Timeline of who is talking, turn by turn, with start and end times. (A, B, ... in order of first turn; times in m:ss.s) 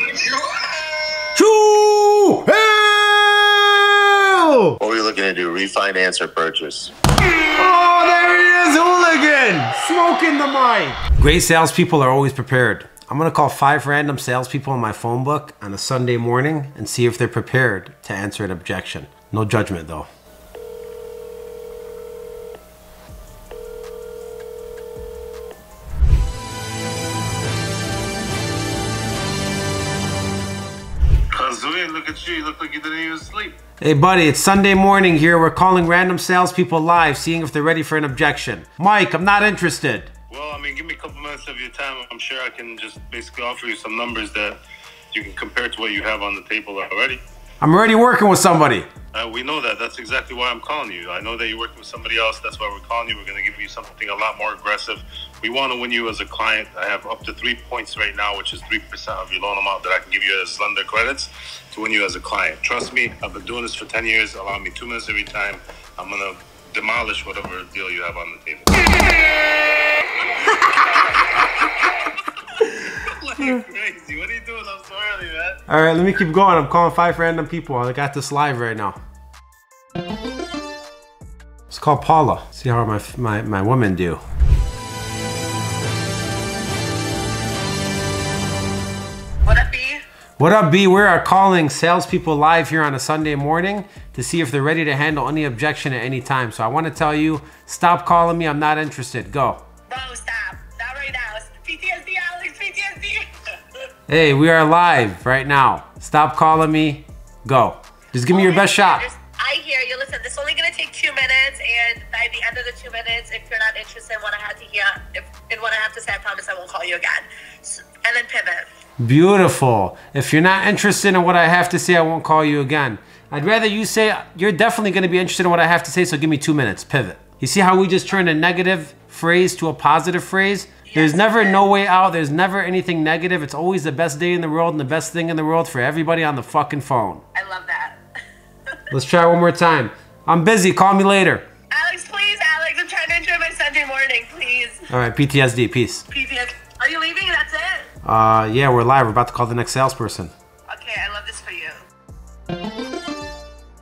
0:01.3-0:04.8 A
0:04.8-0:06.9 B
0:07.6-0:20.1 A
0:31.3-0:33.6 C
0:33.8-0:40.1 A
0:40.3-0:44.6 C
0:45.1-0:47.2 C
0:47.6-0:48.9 A
0:49.1-1:09.1 C
1:10.2-1:11.7 C
1:12.6-1:15.6 C
1:15.7-1:19.0 A
1:21.7-1:24.2 A
1:29.4-1:30.0 D
1:30.4-1:39.6 A
1:39.9-1:43.2 D
1:44.1-1:49.0 A
1:48.3-1:58.7 D
1:59.0-2:17.2 A
2:10.9-2:11.6 D
2:17.3-2:18.0 D
2:18.9-2:21.4 A
2:21.7-2:24.8 D
2:24.9-2:26.0 A
2:26.1-2:27.9 D
2:28.0-2:30.3 A
2:30.7-2:31.8 D